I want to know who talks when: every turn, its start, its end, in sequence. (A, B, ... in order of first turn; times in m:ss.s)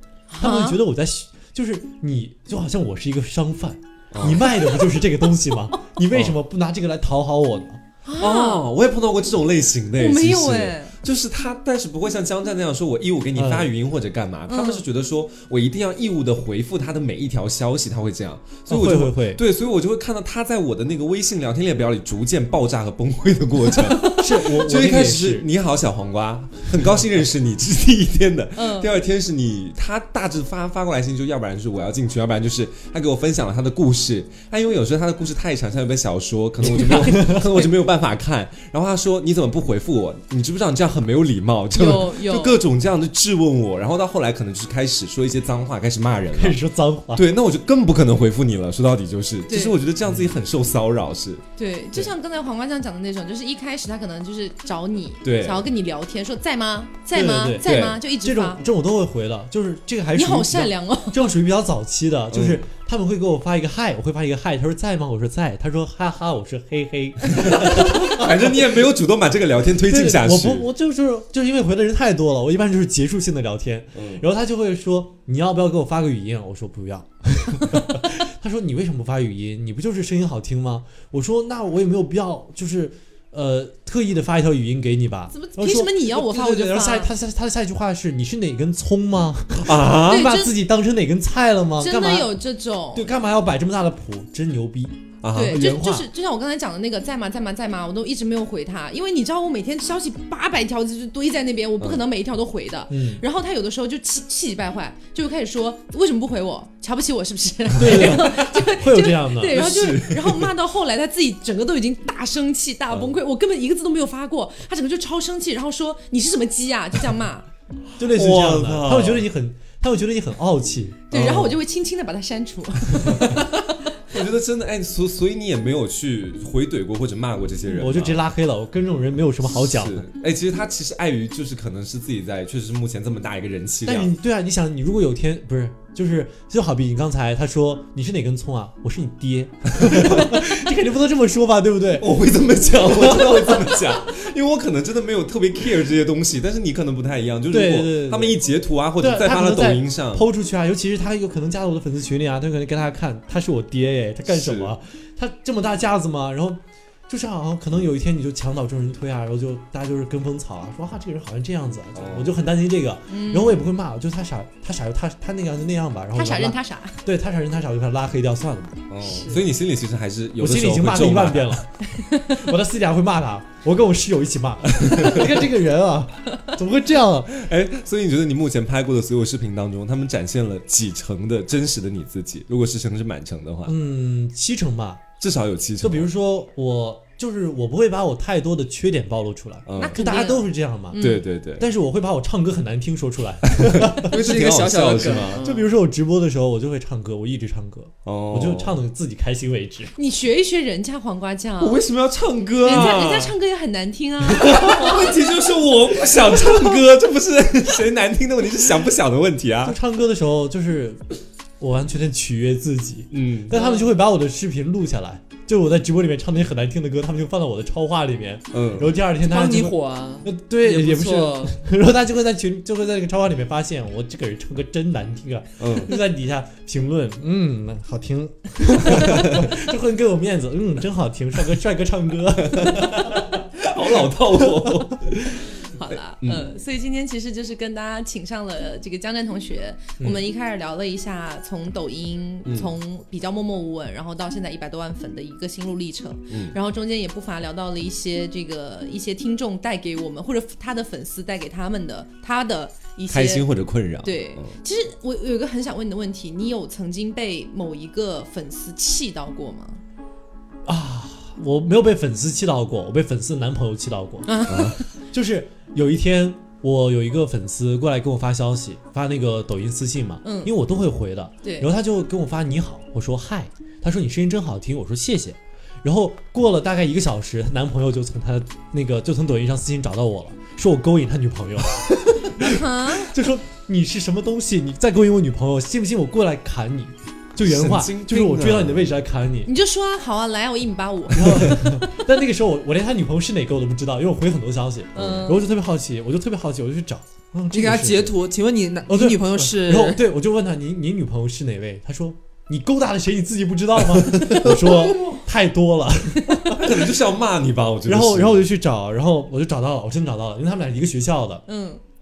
0:00.3-0:00.8 A
0:00.4-0:07.8 B
0:04.1-0:04.5 C
0:04.3-0:04.8 A
0:08.0-0:08.7 A
0:08.2-0:46.6 C
0:10.0-0:11.0 A
0:13.3-0:13.7 B
0:14.5-0:14.8 A
0:18.7-0:19.4 B
0:24.1-0:25.5 B
0:28.6-0:28.9 A
0:36.6-0:37.5 B
0:36.8-0:37.7 A
0:41.8-0:42.6 A
0:46.3-0:47.3 B
0:47.1-0:52.1 C
0:49.5-0:49.8 A
0:50.0-0:50.4 B
0:51.6-0:58.6 A
0:55.2-0:55.7 C
0:57.1-1:08.8 B
0:57.6-0:58.0 C
1:00.1-1:01.4 A
1:02.3-1:02.6 C
1:07.3-1:10.6 C
1:09.8-1:32.4 B
1:14.0-1:14.2 C
1:25.3-1:27.1 A
1:29.6-1:30.3 C
1:30.0-1:30.6 A
1:31.8-1:33.1 A
1:32.9-1:36.1 B
1:35.2-1:35.6 C
1:35.3-1:57.5 A
1:42.9-1:43.2 B
1:47.8-1:49.7 B
1:49.5-1:50.5 C
1:58.0-2:01.6 B
1:58.0-1:59.3 C
2:01.1-2:03.4 A
2:03.0-2:03.5 C
2:04.1-2:08.2 C
2:07.7-2:10.0 B
2:09.4-2:14.1 C
2:13.8-2:23.8 B
2:19.8-2:20.2 C
2:22.0-2:30.3 C
2:27.5-2:48.8 B
2:34.3-2:34.7 C
2:41.9-2:42.3 C
2:43.1-2:43.6 A
2:46.1-2:47.0 A
2:48.9-2:51.6 C
2:49.0-2:49.4 A
2:50.4-2:51.7 B
2:52.0-2:52.4 A
2:52.3-2:57.5 B
2:54.8-2:55.3 C
2:57.3-3:03.8 C
3:03.7-3:05.0 B
3:05.2-3:06.1 C
3:05.8-3:11.1 B
3:09.7-3:10.2 C
3:09.8-3:11.3 A
3:11.0-3:11.7 C
3:11.6-3:14.2 B
3:13.5-3:15.4 C
3:14.0-3:15.4 D
3:15.4-3:19.9 B
3:15.4-3:15.7 A
3:18.0-3:18.8 C
3:20.0-3:21.8 A
3:21.6-3:23.4 C
3:22.6-3:25.2 A
3:24.3-3:29.8 C
3:26.3-3:26.8 B
3:29.6-3:31.0 B
3:31.6-3:53.4 B
3:33.1-3:33.6 C
3:38.5-3:39.0 C
3:39.2-3:41.6 D
3:45.6-3:46.0 C
3:49.0-3:49.4 C
3:52.5-3:55.2 C
3:54.1-3:55.4 B
3:55.6-4:13.5 A
3:56.2-3:56.6 C
4:00.0-4:00.2 B
4:02.5-4:02.7 C
4:06.3-4:06.6 C
4:13.1-4:14.6 C
4:14.0-4:19.8 A
4:20.7-4:49.5 B
4:24.2-4:24.8 A
4:24.5-4:24.8 C
4:30.2-4:30.5 A
4:31.4-4:31.7 A
4:42.4-4:43.1 A
4:47.4-4:48.9 C
4:49.4-4:51.7 A
4:51.1-4:58.2 B
4:55.0-4:55.5 A
4:55.0-4:55.3 C
4:57.5-5:00.0 D
4:58.9-5:06.9 B
5:04.0-5:04.8 C
5:06.5-5:08.4 C
5:07.9-5:11.4 B
5:11.5-5:11.8 A